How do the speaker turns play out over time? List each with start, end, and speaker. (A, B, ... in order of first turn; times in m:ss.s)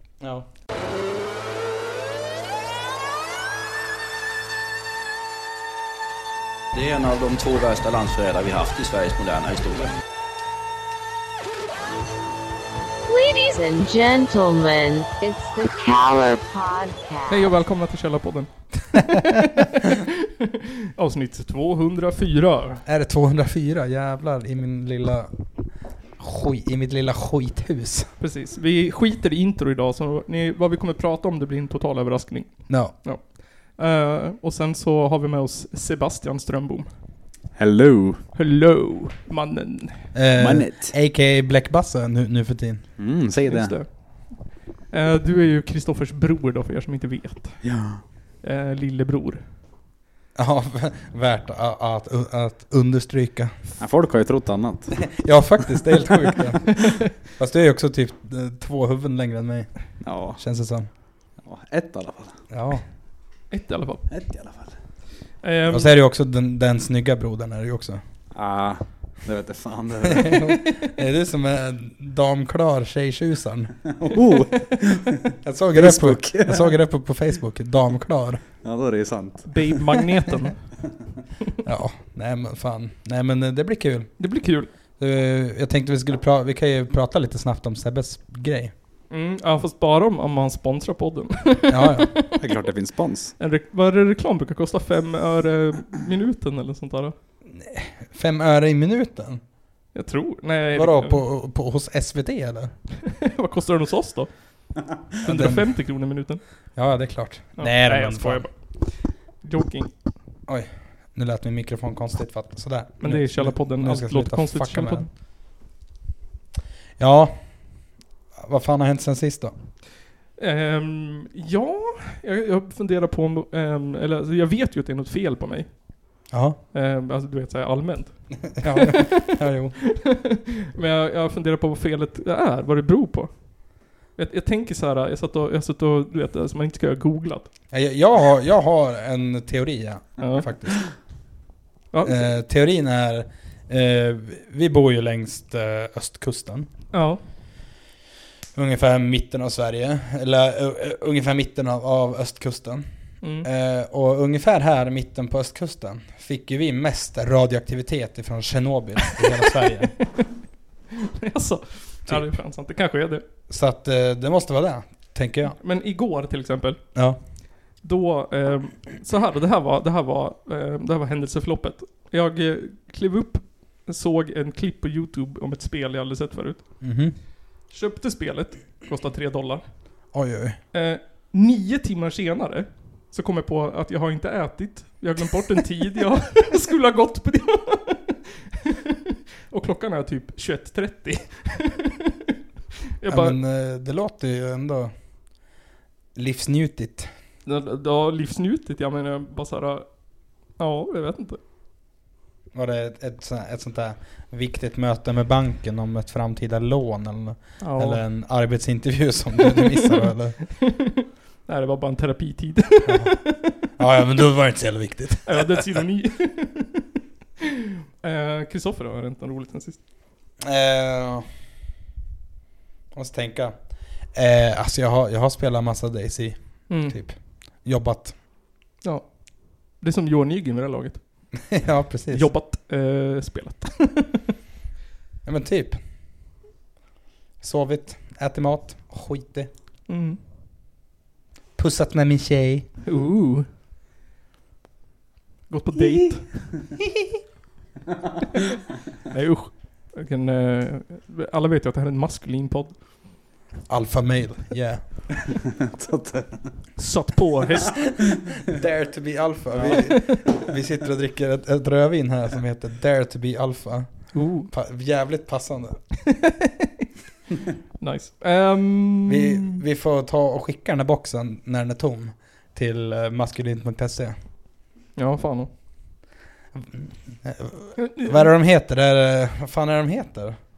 0:00.2-0:00.4 A
0:06.7-0:10.0 B
0:13.1-0:17.5 C
0:17.3-0:22.8 D
0:22.8-0:25.3 A
0:26.2-0:28.1 A
0:28.2-0:36.9 D
0:32.7-0:32.9 A
0:37.6-0:38.2 E
0:38.3-0:40.1 D
0:40.1-0:42.8 A
0:40.3-0:41.0 E
0:43.0-0:43.8 E
0:43.5-0:47.7 D
0:47.6-0:48.0 E
0:48.4-0:49.4 D
0:50.4-0:53.5 A
0:53.8-0:55.1 E
0:55.2-1:00.9 A
1:00.0-1:00.4 E
1:01.4-1:02.4 E
1:02.5-1:02.8 A
1:03.5-1:04.1 D
1:04.1-1:04.7 E
1:05.4-1:05.9 D
1:05.7-1:08.0 A
1:08.3-1:10.4 E
1:10.1-1:13.7 A
1:13.9-1:16.8 E
1:15.4-1:18.4 A
1:18.6-1:19.8 E
1:19.5-1:20.6 D
1:21.6-1:24.2 A
1:24.2-1:24.7 D
1:25.0-1:28.7 A
1:29.1-1:32.5 D
1:31.7-1:32.1 A
1:32.4-1:33.3 E
1:33.4-1:37.1 D
1:37.5-1:39.4 A
1:39.9-1:41.2 D
1:40.7-1:42.7 A
1:43.0-1:44.3 D
1:45.2-1:46.4 D
1:45.2-1:45.7 A
1:46.8-1:48.4 A
1:47.6-1:49.9 D
1:50.5-1:55.0 A
1:53.0-1:55.1 D
1:57.0-1:57.4 A
1:58.4-1:59.5 A
2:00.4-2:06.2 D
2:06.3-2:06.6 A
2:06.7-2:09.1 D
2:08.6-2:09.8 A
2:10.0-2:17.5 D
2:17.7-2:20.8 A
2:20.2-2:20.5 D
2:21.9-2:22.2 D
2:22.0-2:26.7 A
2:26.9-2:27.2 D
2:28.5-2:32.8 A
2:33.2-2:33.5 D
2:33.4-2:39.9 A
2:41.2-2:43.2 D
2:43.5-2:45.6 A
2:45.6-2:46.8 D
2:47.8-2:56.8 D
2:56.8-2:57.2 A
2:57.7-2:59.6 D
3:00.1-3:00.6 A
3:00.7-3:09.0 D
3:09.5-3:12.0 D
3:13.0-3:13.4 D
3:13.1-3:14.9 A
3:16.2-3:17.1 A
3:17.4-3:19.8 D
3:20.6-3:21.4 D
3:22.5-3:30.4 A
3:27.6-3:28.0 D
3:29.7-3:29.9 D
3:30.5-3:30.9 D
3:31.5-3:33.5 D
3:32.8-3:33.2 A
3:33.8-3:35.6 A
3:35.2-3:36.8 D
3:38.0-3:39.8 D
3:40.4-3:41.2 A
3:42.9-3:48.1 A
3:46.7-3:47.0 D
3:48.8-3:51.0 D
3:51.5-3:52.3 A
3:52.1-3:54.2 D
3:55.2-3:55.8 A
3:57.4-3:59.5 A
3:59.9-4:00.2 D
4:01.6-4:02.6 A
4:02.8-4:03.4 D
4:05.5-4:06.6 D
4:09.1-4:12.8 D
4:13.7-4:14.8 A
4:15.6-4:16.5 E
4:16.8-4:17.8 D
4:18.4-4:25.8 A
4:19.5-4:19.9 E
4:24.1-4:24.5 D
4:26.4-4:26.7 D
4:27.8-4:29.6 D
4:29.1-4:34.2 A
4:35.0-4:35.5 D
4:36.6-4:40.4 A
4:37.8-4:38.3 D